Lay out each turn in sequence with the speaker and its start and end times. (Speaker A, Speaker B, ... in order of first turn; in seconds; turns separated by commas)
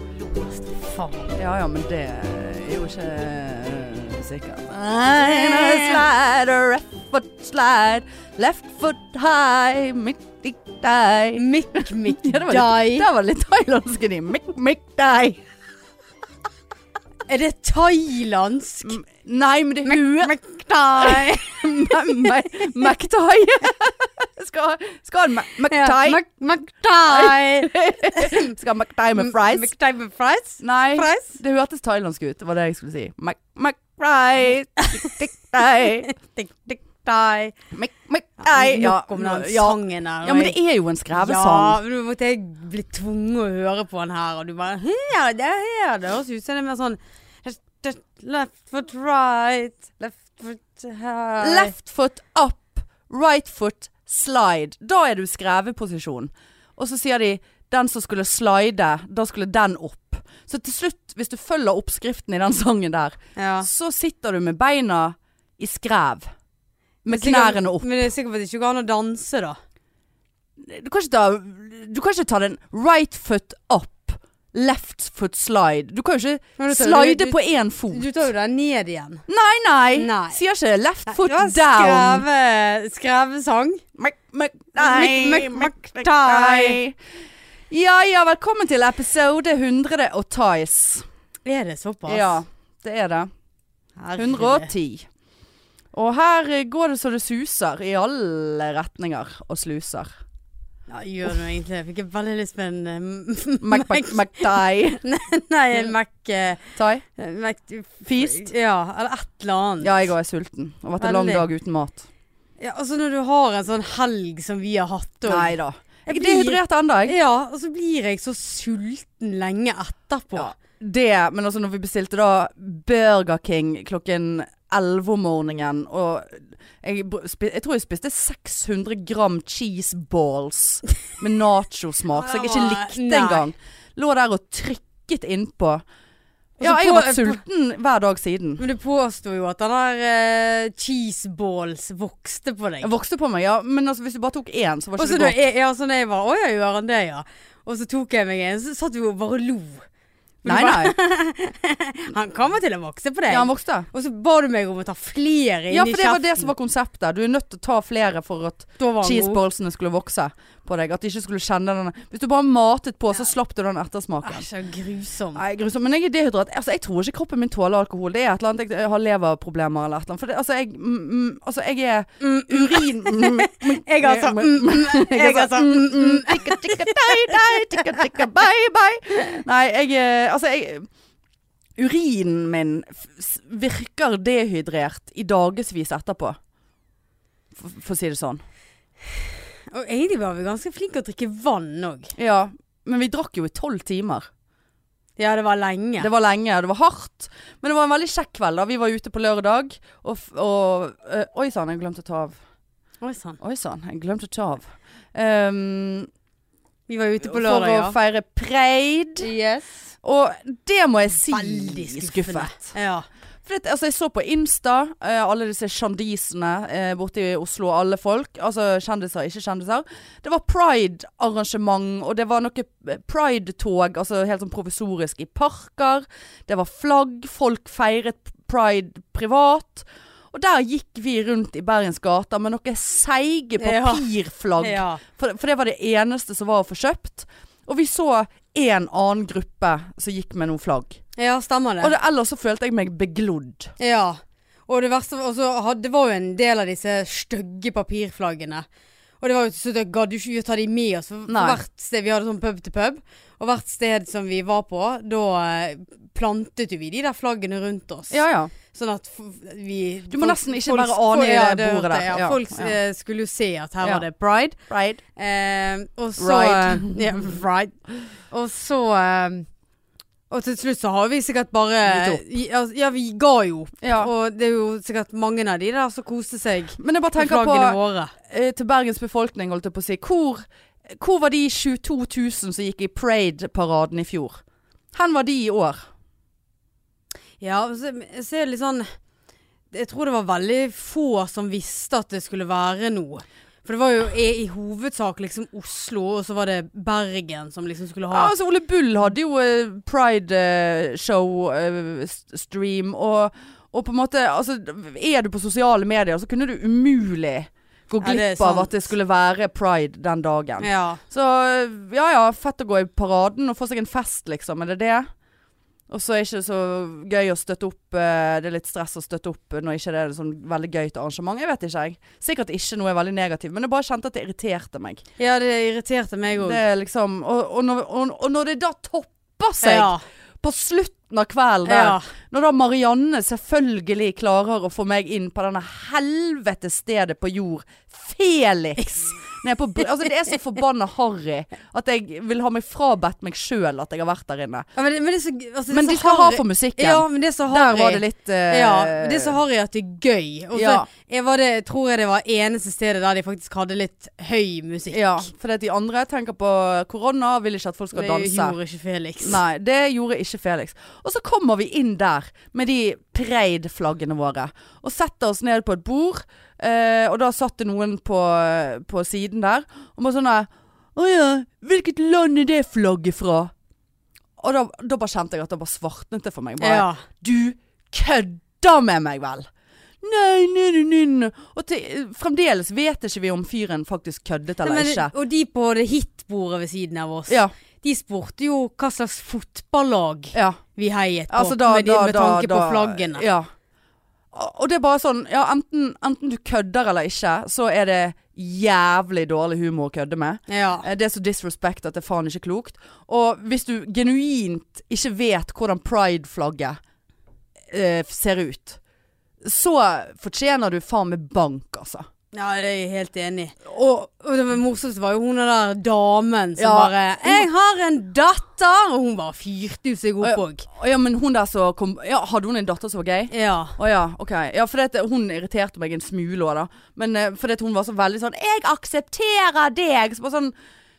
Speaker A: 0.1-1.3, Speaker B: 1.3-15.4, Speaker A: 5.2-6.0, Speaker A: 11.4-13.1, Speaker A: 17.3-19.0, Speaker B: 18.8-20.4, Speaker A: 19.9-21.6, Speaker B: 20.9-26.2, Speaker A: 25.7-28.5, Speaker B: 27.0-29.7, Speaker A: 29.1-31.4, Speaker B: 30.6-36.1, Speaker A: 34.8-35.1, Speaker A: 35.6-37.5, Speaker B: 37.7-41.8, Speaker A: 38.4-40.5, Speaker A: 41.1-51.7, Speaker B: 51.4-66.3, Speaker A: 63.4-63.7, Speaker B: 67.0-67.9, Speaker A: 67.1-69.6, Speaker B: 70.6-78.1, Speaker A: 76.6-79.2, Speaker B: 79.3-82.2, Speaker A: 79.9-80.4, Speaker A: 81.1-83.8, Speaker B: 84.0-87.0, Speaker A: 84.8-86.8, Speaker B: 87.7-91.0, Speaker A: 91.4-92.4, Speaker B: 92.1-93.3, Speaker A: 94.0-94.7, Speaker B: 94.2-95.1, Speaker B: 95.9-100.1, Speaker A: 100.9-106.6, Speaker B: 103.6-105.0, Speaker B: 106.8-107.0, Speaker A: 107.2-110.0, Speaker B: 108.0-108.5, Speaker B: 109.8-112.1, Speaker A: 111.0-111.5, Speaker A: 112.6-120.5, Speaker B: 115.2-117.1, Speaker B: 120.3-135.8, Speaker A: 132.1-133.5, Speaker A: 136.6-137.4, Speaker B: 136.6-138.6, Speaker A: 138.6-142.9, Speaker B: 142.8-145.4, Speaker A: 145.0-149.8, Speaker A: 150.4-156.5, Speaker B: 150.4-150.9, Speaker B: 153.3-153.9, Speaker B: 155.7-164.4, Speaker A: 158.8-159.4, Speaker A: 164.2-165.4, Speaker B: 165.3-180.9, Speaker A: 172.2-178.0, Speaker B: 181.8-186.3, Speaker B: 187.5-188.4, Speaker A: 189.7-192.1, Speaker B: 192.2-194.3, Speaker A: 195.2-196.1, Speaker B: 196.0-202.3, Speaker A: 203.0-203.4, Speaker B: 203.4-206.1, Speaker A: 206.9-207.9, Speaker B: 207.2-209.3, Speaker A: 209.2-209.9, Speaker B: 210.0-212.7, Speaker A: 211.3-213.1, Speaker B: 213.4-241.0, Speaker A: 233.6-234.1, Speaker A: 234.6-235.0, Speaker A: 241.2-241.9, Speaker B: 241.8-243.7, Speaker A: 243.8-248.7, Speaker A: 249.2-264.6, Speaker B: 251.3-251.6, Speaker B: 258.1-258.5, Speaker B: 260.1-262.7, Speaker B: 264.7-265.0, Speaker A: 265.1-267.8, Speaker B: 266.2-267.2, Speaker A: 268.3-269.5, Speaker A: 270.3-278.1, Speaker B: 271.8-272.2, Speaker B: 273.8-274.1, Speaker B: 276.8-280.4, Speaker B: 281.0-284.4, Speaker B: 284.9-285.9, Speaker A: 287.4-288.9, Speaker A: 289.7-298.3, Speaker B: 298.1-315.1, Speaker A: 308.0-308.7, Speaker A: 310.6-311.0, Speaker B: 315.9-325.0, Speaker A: 325.2-326.6, Speaker B: 326.4-344.7, Speaker A: 329.6-330.0, Speaker A: 331.7-332.1, Speaker A: 344.7-355.3, Speaker B: 345.7-349.4, Speaker B: 350.5-350.9, Speaker B: 354.9-358.6, Speaker A: 357.9-359.4, Speaker B: 359.2-373.5, Speaker B: 374.4-379.5, Speaker A: 376.6-377.0, Speaker B: 380.0-385.1, Speaker A: 384.6-393.2, Speaker B: 390.3-390.6, Speaker B: 391.3-393.5, Speaker B: 394.3-406.8, Speaker A: 400.5-400.9, Speaker B: 407.7-408.8, Speaker B: 409.4-412.1, Speaker A: 412.3-420.6, Speaker B: 416.6-417.5, Speaker B: 420.2-430.5, Speaker A: 423.3-423.8